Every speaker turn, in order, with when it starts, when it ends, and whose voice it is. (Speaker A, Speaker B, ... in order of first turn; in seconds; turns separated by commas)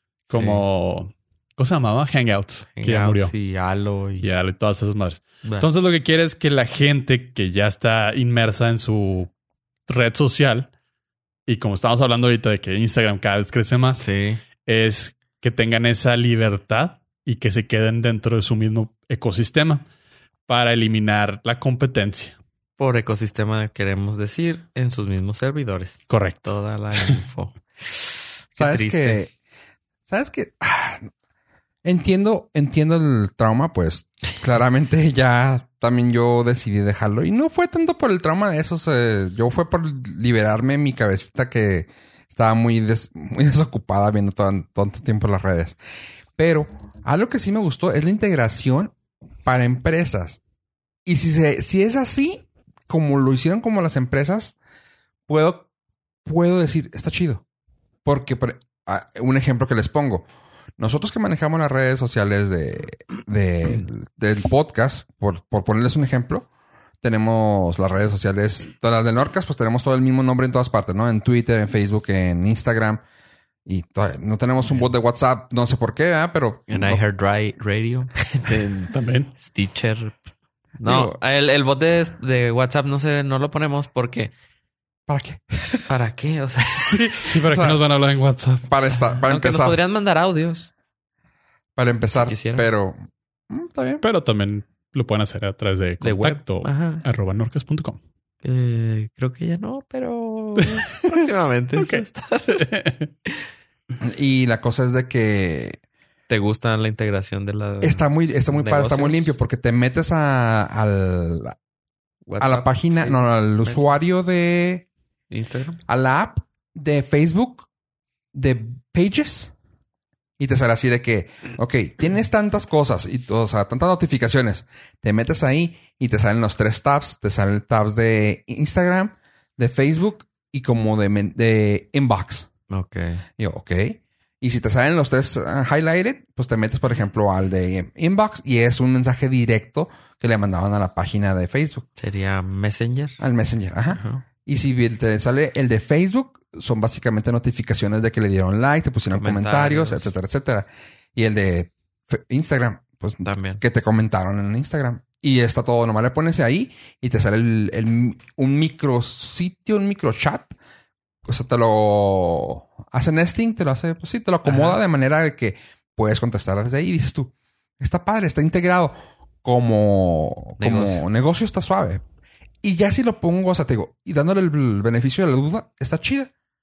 Speaker A: 0.3-3.3, Speaker B: 0.3-0.6, Speaker B: 2.8-4.3, Speaker A: 4.2-9.3, Speaker A: 9.9-10.7, Speaker A: 11.5-14.0, Speaker B: 14.0-14.4, Speaker A: 14.7-19.9, Speaker A: 20.5-22.4, Speaker B: 22.8-29.2, Speaker A: 26.1-26.5, Speaker C: 28.6-29.3, Speaker C: 30.1-31.1, Speaker C: 31.8-45.8, Speaker C: 46.4-50.4, Speaker C: 51.1-54.5, Speaker C: 55.3-55.7, Speaker C: 56.2-57.4, Speaker C: 58.0-60.3, Speaker C: 60.8-66.5, Speaker C: 67.0-73.0, Speaker C: 73.7-77.0, Speaker B: 76.7-80.2, Speaker A: 78.8-79.3, Speaker B: 80.8-84.3, Speaker C: 85.1-85.9, Speaker B: 85.9-87.1, Speaker C: 86.9-87.8, Speaker A: 87.2-88.7, Speaker C: 88.7-89.8, Speaker B: 89.3-90.7, Speaker C: 91.8-93.0, Speaker B: 92.2-92.7, Speaker C: 93.5-94.0, Speaker A: 94.0-98.0, Speaker B: 96.0-97.0, Speaker B: 98.4-102.7, Speaker A: 100.7-101.1, Speaker A: 101.8-103.1, Speaker C: 104.0-105.8, Speaker B: 106.3-109.3, Speaker C: 107.8-111.6, Speaker B: 112.3-113.9, Speaker C: 112.4-114.9, Speaker B: 115.3-115.8, Speaker C: 115.9-117.7, Speaker C: 118.3-119.5, Speaker C: 120.4-132.5, Speaker B: 132.7-133.2, Speaker C: 133.4-141.9, Speaker B: 142.0-143.2, Speaker C: 143.2-160.6, Speaker B: 143.9-144.2, Speaker B: 149.1-150.1, Speaker B: 153.2-153.6, Speaker C: 161.3-172.0, Speaker B: 164.4-164.8, Speaker B: 170.6-171.0, Speaker C: 172.6-176.3